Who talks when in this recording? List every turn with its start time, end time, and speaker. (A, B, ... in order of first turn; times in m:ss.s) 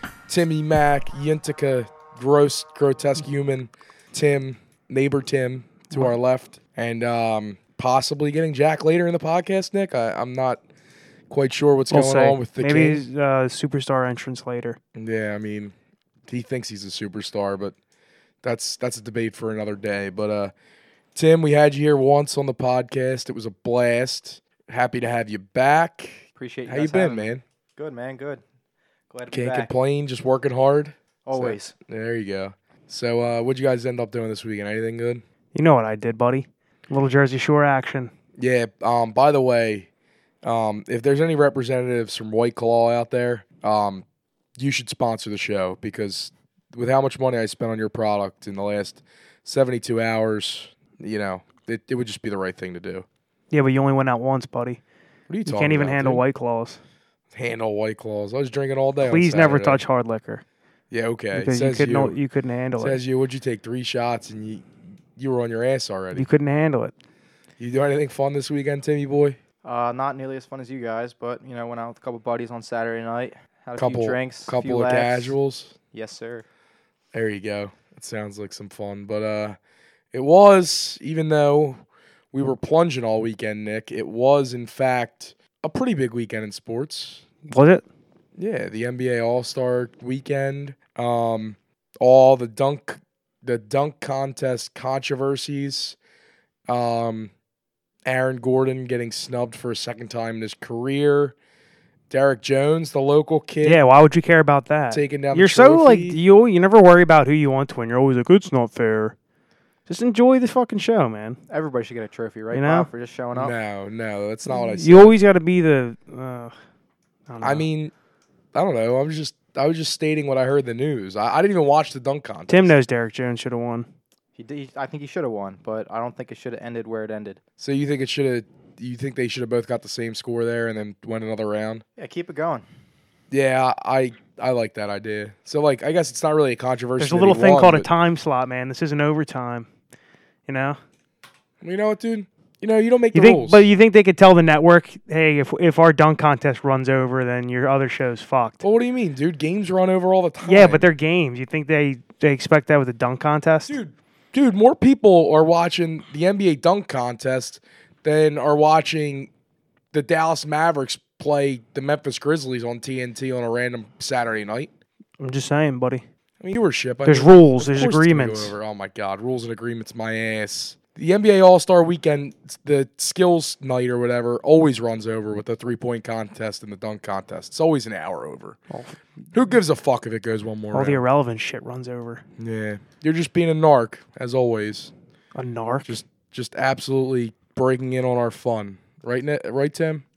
0:00.3-0:10.6 A
0:11.3-0:13.0 A
0:11.9-0:14.8 B
0:15.0-0:15.7 A
0:16.3-0:17.8 A
0:18.4-0:20.5 A
0:21.2-0:27.4 A
0:26.4-0:28.4 C
0:29.1-0:29.7 C
0:29.3-0:35.2 A
0:31.3-0:31.7 C
0:35.5-0:38.1 B
0:38.4-0:39.9 A
0:40.4-0:44.0 A
0:44.6-0:53.1 A
0:53.5-0:54.8 B
0:55.3-0:56.2 A
0:55.5-0:56.8 B
0:57.3-0:59.8 A
0:59.0-1:00.4 B
1:00.9-1:02.2 A
1:01.3-1:03.0 B
1:02.8-1:04.7 A
1:05.2-1:06.3 A
1:06.1-1:06.9 B
1:07.6-1:09.4 A
1:09.6-1:15.4 C
1:13.8-1:15.7 A
1:15.9-1:16.4 C
1:17.1-1:19.6 A
1:20.1-1:27.2 A
1:27.5-1:27.8 B
1:28.4-1:36.0 A
1:36.7-1:37.3 A
1:38.0-1:41.4 A
1:42.1-1:43.8 A
1:43.6-1:49.2 B
1:44.9-1:46.2 A
1:49.9-1:51.4 B
1:51.5-1:53.5 C
1:52.5-1:52.9 B
1:53.3-1:55.2 A
1:54.5-1:56.5 B
1:57.3-1:57.6 B
1:57.4-1:57.9 A
1:58.5-2:02.7 A
2:02.5-2:03.9 B
2:04.4-2:07.4 C
2:07.6-2:11.8 A
2:12.0-2:12.7 C
2:13.3-2:17.9 A
2:17.0-2:19.7 B
2:20.5-2:20.8 B
2:21.6-2:23.6 A
2:23.1-2:28.6 B
2:28.6-2:30.9 A
2:30.4-2:33.8 B
2:33.7-2:39.3 A
2:39.9-2:44.7 A
2:45.2-2:46.0 B
2:46.4-2:58.6 A
2:47.0-2:48.5 B
2:58.7-2:59.0 B
2:59.3-3:01.0 A
3:00.7-3:02.2 B
3:02.4-3:04.9 A
3:05.4-3:05.9 B
3:05.8-3:10.0 A